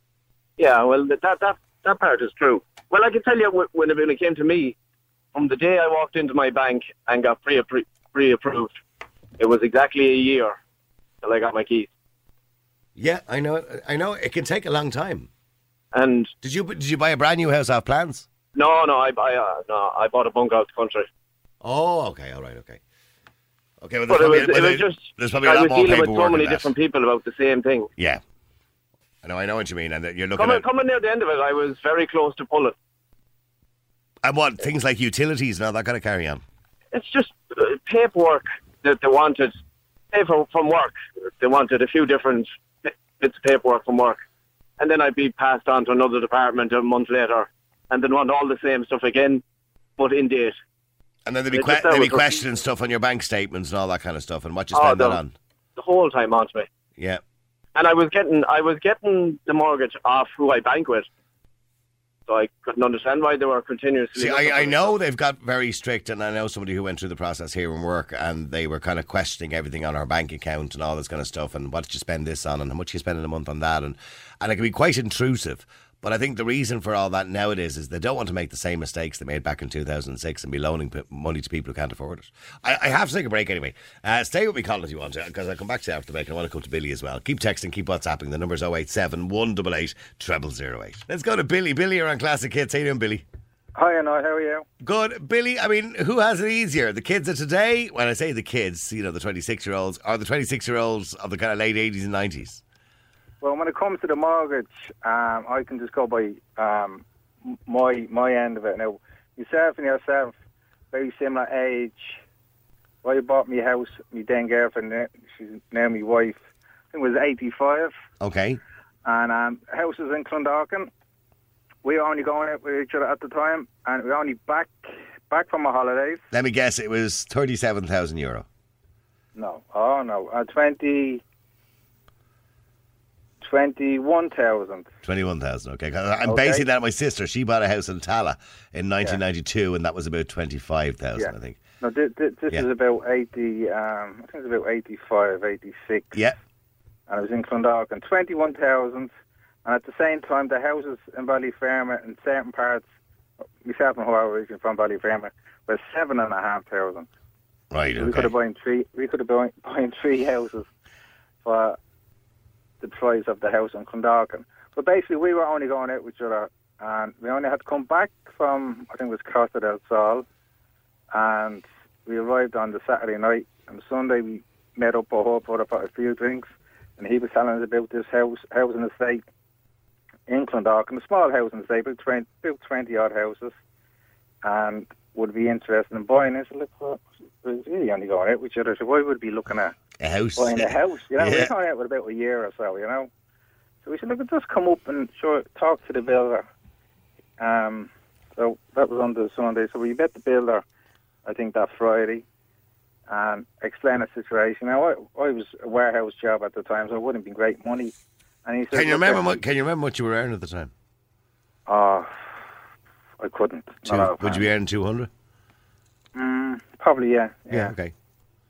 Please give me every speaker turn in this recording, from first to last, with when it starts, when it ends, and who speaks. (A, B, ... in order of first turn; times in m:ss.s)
0:00.6-0:04.8 A
0:05.3-0:08.7 A
0:09.4-0:10.6 A
0:11.2-0:11.9 A
0:13.0-0:15.3 B
0:15.9-0:16.3 A
0:16.4-0:18.3 B
0:18.6-0:21.1 A
0:21.6-0:22.8 B
0:23.8-0:26.7 B
0:24.1-0:27.9 A
0:29.2-0:30.6 B
0:30.4-0:32.8 A
0:34.2-0:36.4 B
0:36.9-0:39.5 A
0:40.1-0:44.2 A
0:44.8-0:49.4 A
0:50.0-0:50.6 A
0:51.3-0:55.4 B
0:51.5-0:52.3 A
0:54.7-0:55.2 A
0:55.8-0:56.7 A
0:57.0-0:57.2 B
0:57.8-1:01.1 A
1:02.3-1:04.9 A
1:04.2-1:33.2 B
1:33.8-1:34.6 C
1:34.8-1:42.6 B
1:43.4-1:47.0 C
1:47.7-1:50.3 C
1:50.9-1:52.2 C
1:53.0-1:56.4 C
1:56.9-1:57.9 C
1:58.2-1:58.6 B
1:59.0-2:00.9 C
2:01.8-2:04.8 C
2:05.3-2:06.2 C
2:06.3-2:08.5 B
2:09.4-2:11.2 C
2:13.4-2:14.9 C
2:15.0-2:21.6 B
2:16.3-2:16.6 C
2:21.2-2:26.2 C
2:27.1-2:29.1 C
2:29.6-2:32.9 C
2:33.6-2:37.1 C
2:37.7-2:38.3 B
2:38.0-2:40.7 C
2:41.4-2:41.8 C
2:42.8-2:50.2 C
2:51.1-2:59.2 C
3:00.3-3:03.6 C
3:04.4-3:09.7 C
3:10.0-3:11.5 B
3:10.4-3:13.1 C
3:13.8-3:16.5 C
3:17.4-3:20.6 C
3:21.2-3:22.2 C
3:23.1-3:27.9 C
3:28.4-3:29.4 C
3:28.7-3:30.7 B
3:31.7-3:32.1 C
3:33.2-3:34.5 C
3:33.9-3:35.1 B
3:36.2-3:37.8 C
3:37.5-3:37.9 B